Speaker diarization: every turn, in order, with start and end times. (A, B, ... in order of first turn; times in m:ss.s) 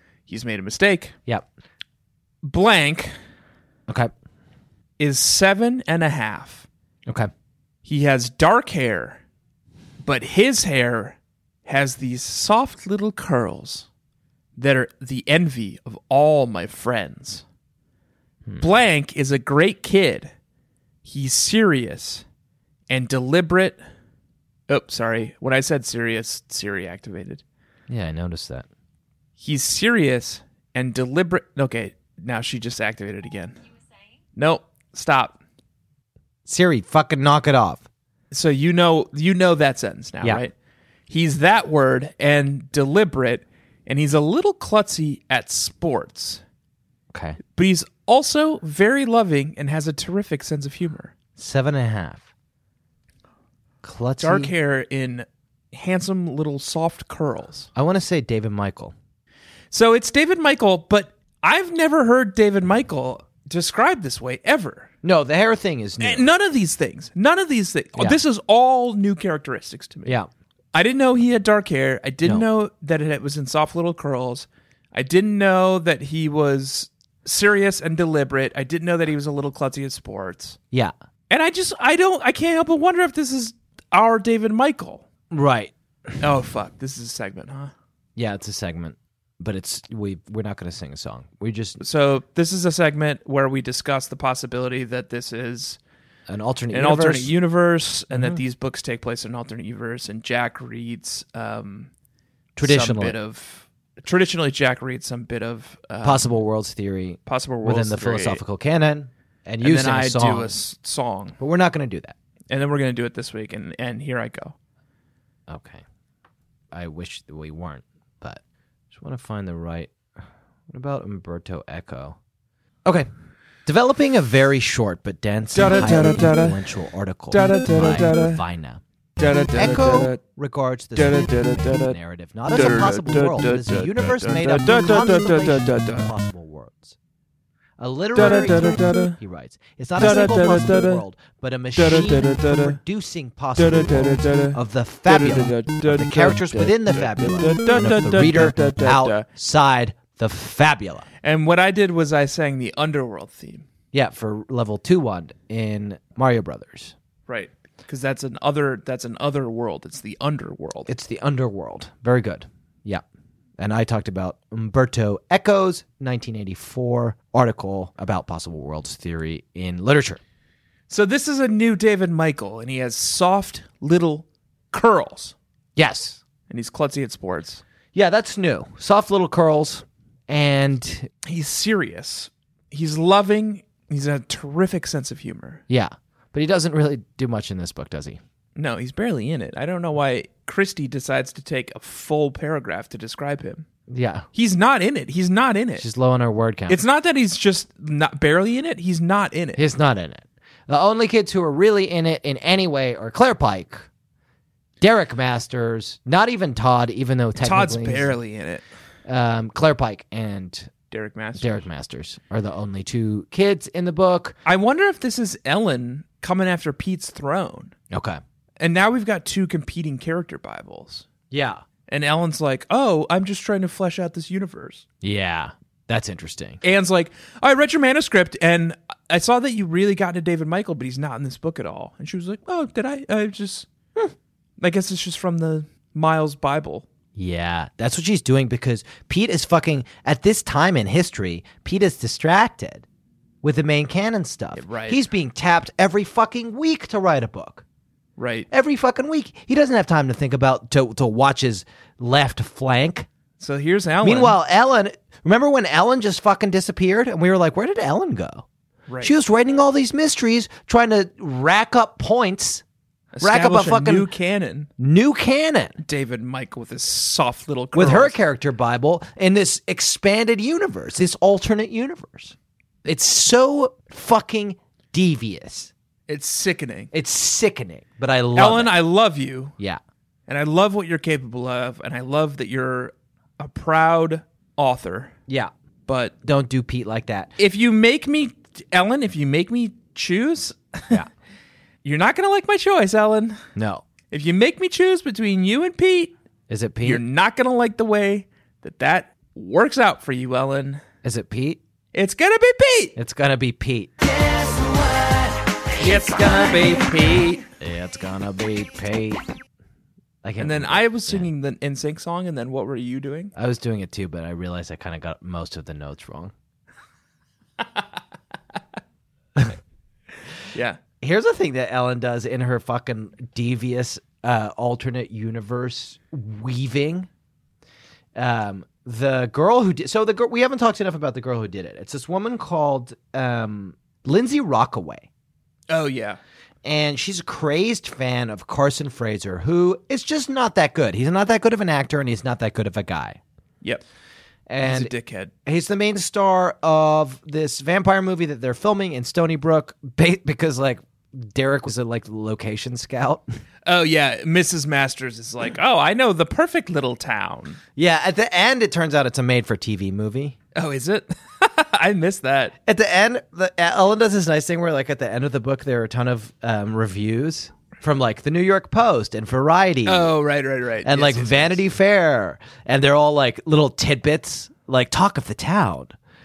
0:00.3-0:01.2 A
0:02.4-0:03.2 A
0:05.0-0:06.7 A
0:07.8-0:09.2 A
0:10.0-0:13.9 A
0:14.6-0:17.4 A
0:18.6-0:20.3 A
0:21.0-0:22.2 A
0:22.9-0:23.8 A
0:24.7-0:27.4 A
0:27.9-0:28.7 B
0:29.4-0:33.6 A
0:34.4-0:35.4 A
0:36.5-0:37.8 B
0:38.3-0:40.5 A
0:41.1-0:46.4 A
0:47.1-0:47.4 B
0:47.5-0:51.2 A
0:51.4-0:52.2 B
0:53.8-0:54.5 B
0:54.2-0:57.7 A
0:57.8-0:58.9 B
0:59.7-1:04.9 A
1:05.0-1:06.3 B
1:06.0-1:10.1 A
1:10.7-1:20.6 A
1:21.3-1:25.1 A
1:25.3-1:25.7 B
1:26.2-1:27.7 A
1:28.2-1:31.8 B
1:31.8-1:35.8 A
1:36.3-1:37.3 B
1:36.7-1:41.9 A
1:38.1-1:38.4 B
1:42.6-1:43.2 B
1:42.6-1:46.4 A
1:46.0-1:50.6 B
1:47.3-1:48.4 A
1:49.6-1:51.4 A
1:51.4-1:52.2 B
1:52.5-1:54.6 A
1:55.5-1:55.8 B
1:56.7-1:58.4 B
1:58.9-2:00.0 B
2:00.7-2:02.2 B
2:03.7-2:08.8 B
2:05.6-2:06.6 A
2:07.3-2:08.4 A
2:09.2-2:10.2 A
2:09.5-2:17.0 B
2:11.0-2:12.0 A
2:12.5-2:16.1 A
2:17.8-2:31.1 B
2:18.2-2:19.2 A
2:20.0-2:21.0 A
2:21.8-2:22.8 A
2:23.6-2:29.3 A
2:31.2-2:33.6 A
2:33.9-2:36.9 B
2:37.3-2:40.9 A
2:40.9-2:43.0 B
2:43.6-2:50.2 B
2:50.9-2:55.4 A
2:55.8-2:56.2 B
2:56.5-2:57.6 A
2:57.9-3:01.1 B
3:01.2-3:05.6 A
3:05.7-3:08.2 B
3:08.6-3:13.7 A
3:13.9-3:14.3 B
3:14.4-3:15.9 A
3:15.8-3:16.8 B
3:16.7-3:19.6 A
3:19.6-3:23.9 B
3:24.8-3:28.1 B
3:27.4-3:28.6 A
3:29.1-3:30.7 B
3:30.9-3:31.5 A
3:31.4-3:34.4 B
3:34.4-3:37.7 A
3:37.9-3:38.2 B
3:38.6-3:41.1 A
3:41.3-3:41.6 B
3:41.9-3:44.8 A
3:45.0-3:46.6 B
3:46.6-3:53.7 A
3:54.6-3:56.9 A
3:57.2-4:02.8 B
4:03.4-4:07.6 B
4:04.6-4:05.0 A
4:08.2-4:08.5 A
4:08.5-4:13.1 B
4:13.4-4:14.4 A
4:14.0-4:18.5 B
4:18.9-4:19.1 A
4:19.0-4:22.6 B
4:23.1-4:24.7 A
4:23.2-4:24.1 B
4:24.8-4:25.8 B
4:25.8-4:28.2 A
4:27.8-4:35.7 B
4:36.1-4:36.9 A
4:36.9-4:38.8 B
4:38.4-4:39.6 A
4:40.3-4:45.1 A
4:45.9-4:46.1 A
4:46.2-4:47.3 B
4:47.4-4:51.0 A
4:51.8-4:53.4 A
4:53.6-4:53.8 B
4:54.1-4:56.1 A
4:56.5-4:57.0 B
4:56.8-5:00.8 A
5:01.0-5:01.6 B
5:01.9-5:03.0 A
5:03.0-5:04.8 B
5:05.8-5:07.4 A
5:07.6-5:09.2 B
5:10.2-5:11.3 B
5:10.4-5:13.3 A
5:13.4-5:16.3 B
5:20.5-5:20.8 A
5:21.0-5:27.1 B
5:28.2-5:35.1 B
5:35.7-5:36.2 A
5:36.6-5:43.2 B
5:44.5-5:44.9 B
5:44.6-5:45.3 A
5:45.5-5:53.2 B
5:53.7-5:57.6 A
5:57.8-6:00.4 B
6:00.6-6:02.6 A
6:02.7-6:10.1 B
6:09.8-6:11.6 A
6:10.8-6:16.0 B